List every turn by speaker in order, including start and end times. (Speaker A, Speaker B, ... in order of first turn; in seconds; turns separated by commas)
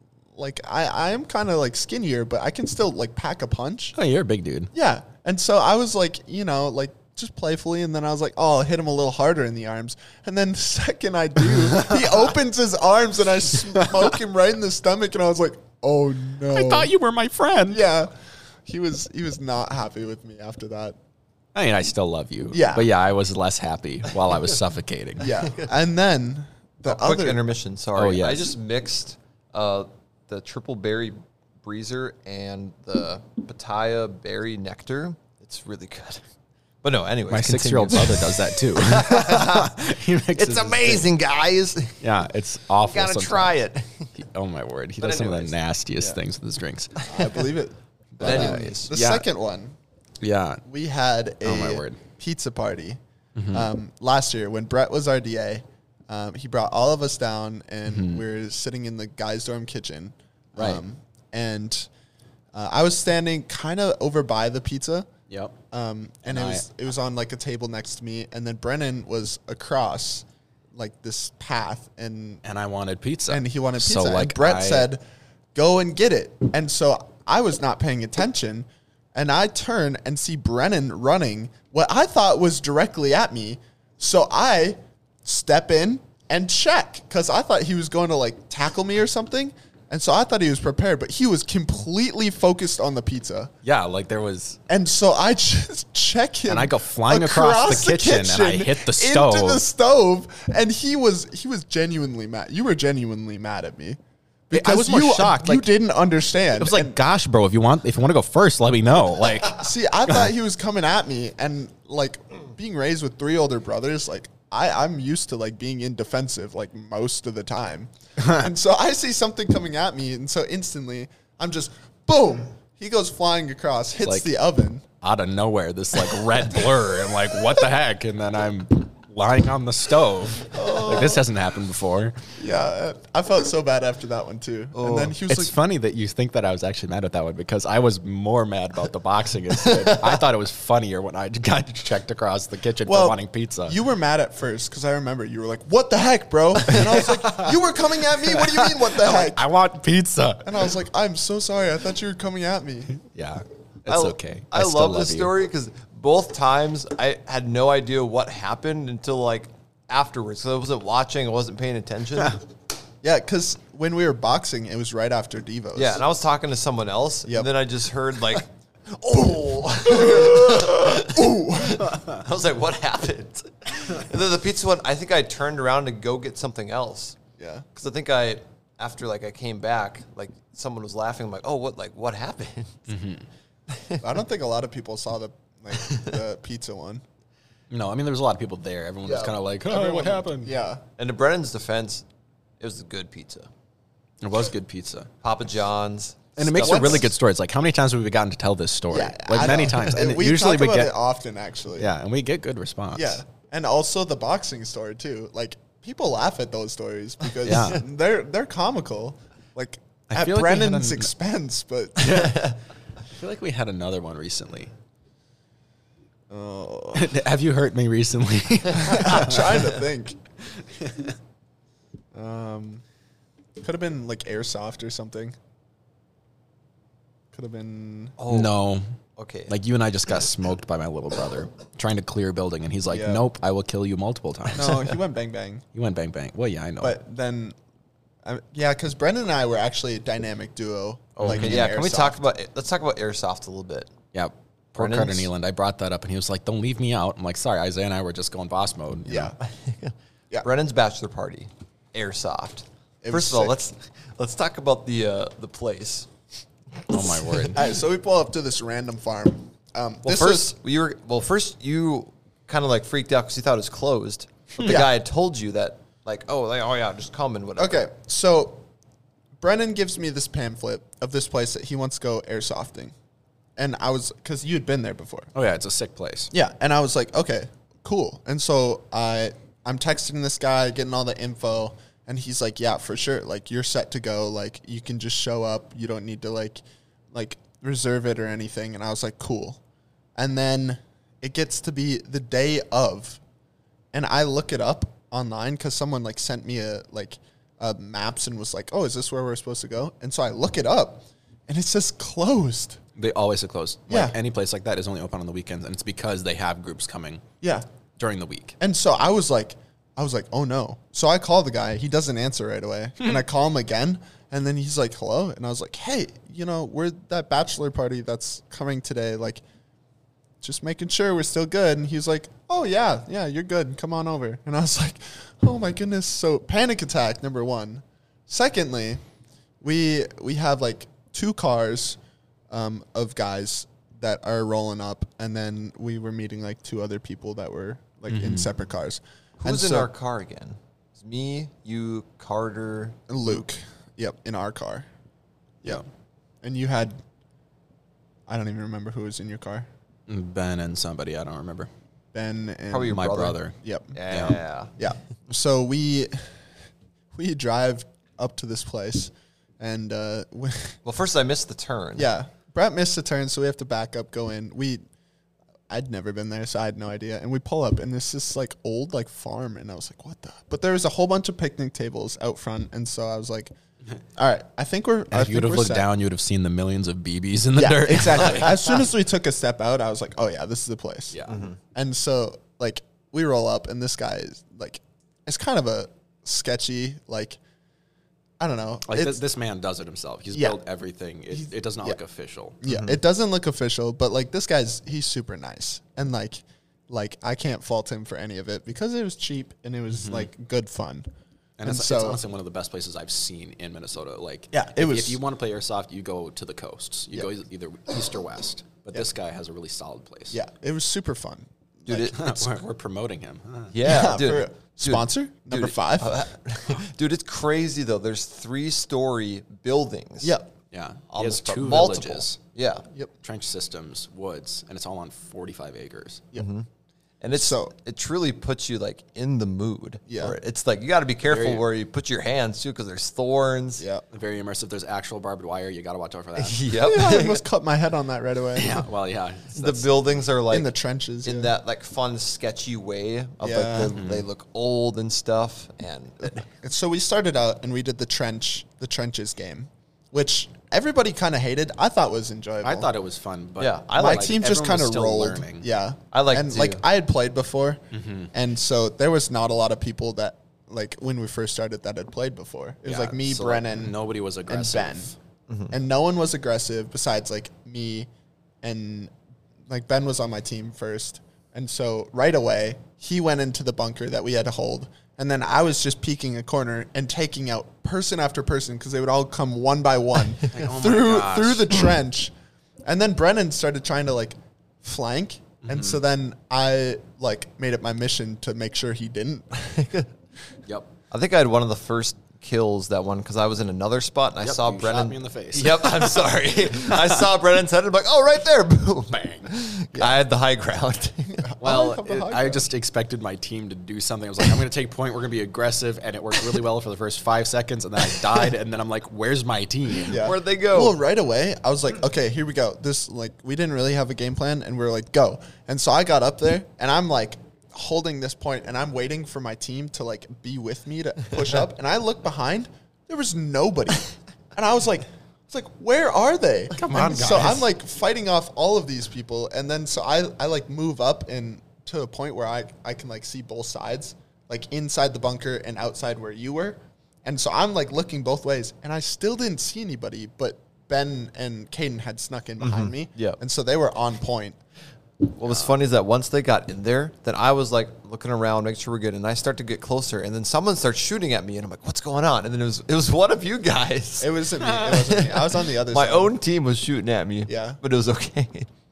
Speaker A: 0.3-3.9, Speaker B: 3.9-4.7, Speaker A: 4.7-16.9, Speaker B: 16.5-17.9, Speaker A: 17.7-18.1, Speaker A: 18.6-21.0, Speaker B: 21.5-25.3, Speaker A: 22.5-22.9, Speaker A: 25.2-27.4, Speaker C: 26.9-36.2, Speaker B: 27.9-28.5, Speaker C: 36.8-42.0, Speaker B: 37.3-41.1, Speaker B: 42.0-43.6, Speaker C: 42.8-44.1, Speaker B: 44.1-47.0, Speaker C: 45.0-45.5, Speaker A: 47.1-49.8, Speaker B: 48.2-49.2, Speaker C: 48.2-48.9, Speaker B: 50.2-50.6, Speaker A: 50.6-53.0, Speaker B: 51.4-52.0, Speaker B: 53.4-53.7, Speaker A: 53.5-61.9, Speaker B: 57.9-58.2, Speaker B: 60.5-60.8, Speaker A: 62.5-65.1, Speaker B: 65.3-65.5, Speaker A: 65.7-72.4, Speaker B: 66.3-66.6, Speaker B: 72.4-74.9, Speaker A: 73.3-75.0, Speaker A: 75.5-93.5, Speaker B: 93.6-94.6, Speaker A: 94.7-104.0, Speaker B: 96.5-99.6, Speaker B: 104.5-105.7, Speaker A: 104.5-107.0, Speaker B: 106.6-109.6, Speaker A: 109.5-124.8, Speaker B: 125.0-132.1, Speaker A: 130.5-131.2, Speaker A: 132.3-135.5, Speaker C: 134.7-135.1, Speaker B: 135.3-143.8, Speaker A: 142.8-149.4, Speaker B: 146.7-147.6, Speaker B: 148.2-150.7, Speaker A: 150.4-153.0, Speaker B: 153.0-155.3, Speaker C: 153.9-162.4, Speaker A: 163.0-166.1, Speaker C: 165.7-177.2, Speaker A: 169.8-171.9, Speaker A: 177.4-177.7, Speaker C: 177.7-182.8, Speaker B: 182.9-183.2, Speaker C: 183.7-184.0, Speaker A: 184.0-187.0, Speaker B: 187.7-190.5, Speaker A: 189.0-190.8, Speaker C: 191.0-192.0, Speaker C: 192.6-193.5, Speaker B: 194.2-195.1, Speaker C: 195.2-197.1, Speaker B: 196.4-200.9, Speaker A: 196.5-197.1, Speaker A: 198.9-201.9, Speaker B: 201.8-203.2, Speaker A: 202.9-212.5, Speaker B: 207.4-207.8, Speaker B: 210.1-211.1, Speaker B: 212.0-212.5, Speaker B: 213.1-214.7, Speaker A: 216.3-217.1, Speaker B: 216.9-219.7, Speaker A: 218.8-220.2, Speaker B: 220.8-221.1, Speaker A: 222.1-222.8, Speaker A: 223.6-225.3, Speaker A: 227.3-228.2, Speaker C: 228.2-228.5, Speaker B: 228.3-228.8, Speaker C: 229.2-229.5, Speaker B: 229.5-235.0, Speaker A: 232.9-233.2, Speaker A: 234.5-235.6, Speaker B: 235.7-237.0, Speaker A: 236.8-237.6, Speaker A: 238.2-242.2, Speaker B: 241.2-241.7, Speaker C: 241.2-243.9, Speaker B: 244.1-249.3, Speaker C: 244.8-245.3, Speaker A: 249.1-249.4, Speaker C: 249.4-256.1, Speaker A: 253.0-253.6, Speaker B: 256.9-257.6, Speaker A: 257.5-260.5, Speaker C: 260.0-267.9, Speaker A: 264.6-264.9, Speaker A: 267.6-268.6, Speaker A: 269.4-272.9, Speaker A: 273.6-275.3, Speaker B: 275.3-276.3, Speaker A: 276.3-289.6, Speaker A: 290.1-293.2, Speaker A: 293.9-302.8, Speaker B: 303.0-307.2, Speaker A: 303.9-304.2, Speaker A: 307.4-307.7, Speaker B: 308.0-308.6, Speaker A: 308.6-319.4, Speaker A: 320.4-329.0, Speaker A: 329.6-332.0, Speaker A: 332.5-339.9, Speaker B: 338.1-338.5, Speaker C: 339.4-343.0, Speaker A: 343.1-344.9, Speaker A: 346.4-347.0, Speaker A: 348.3-349.7, Speaker B: 350.1-351.7, Speaker A: 352.1-353.9, Speaker C: 352.7-353.4, Speaker B: 352.9-353.5, Speaker C: 353.9-354.7, Speaker B: 354.1-354.4, Speaker A: 354.8-356.3, Speaker A: 357.1-360.8, Speaker C: 360.8-362.1, Speaker A: 362.0-364.8, Speaker A: 365.7-373.5, Speaker A: 374.1-375.9, Speaker B: 375.1-378.8, Speaker A: 377.6-381.2, Speaker B: 381.1-381.4, Speaker C: 381.3-381.6, Speaker A: 381.7-387.4, Speaker A: 388.4-389.2, Speaker B: 388.9-392.7, Speaker A: 390.3-390.6, Speaker A: 391.3-392.0, Speaker A: 392.6-401.1, Speaker B: 399.9-400.3, Speaker B: 401.6-410.4, Speaker A: 401.6-402.2, Speaker A: 404.5-405.2, Speaker A: 410.3-412.4, Speaker C: 411.9-412.5, Speaker B: 412.0-413.7, Speaker C: 413.7-420.4, Speaker A: 413.8-416.2, Speaker A: 420.2-420.5, Speaker B: 420.7-422.4, Speaker C: 421.1-422.9, Speaker B: 423.2-426.2, Speaker C: 426.3-426.7, Speaker C: 427.2-433.8, Speaker A: 427.3-427.7, Speaker A: 430.1-430.4, Speaker B: 431.3-431.6, Speaker A: 433.8-434.0, Speaker B: 434.1-436.7, Speaker C: 436.4-437.4, Speaker A: 436.8-438.9, Speaker B: 438.5-440.1, Speaker C: 439.5-440.7, Speaker A: 440.5-441.5, Speaker C: 441.2-446.5, Speaker A: 443.4-443.9, Speaker B: 443.9-444.3, Speaker A: 446.5-452.9, Speaker B: 452.6-455.6, Speaker C: 453.6-454.4, Speaker A: 453.9-463.9, Speaker C: 456.1-456.8, Speaker B: 457.9-458.3, Speaker B: 462.8-465.1, Speaker A: 464.5-465.1, Speaker C: 465.5-465.7, Speaker A: 465.7-468.1, Speaker A: 468.6-469.1, Speaker A: 469.7-482.3, Speaker B: 480.5-481.9, Speaker A: 482.8-490.0, Speaker B: 485.6-486.0, Speaker C: 489.8-490.1, Speaker C: 491.1-501.4, Speaker B: 494.4-497.2, Speaker B: 499.1-499.5, Speaker A: 499.9-500.2, Speaker A: 501.3-502.6, Speaker B: 501.6-510.2, Speaker A: 510.1-544.6, Speaker C: 510.1-511.0, Speaker B: 526.7-527.7, Speaker C: 542.6-543.4, Speaker C: 545.2-558.7, Speaker A: 554.2-556.3, Speaker B: 554.8-555.1, Speaker A: 557.5-557.8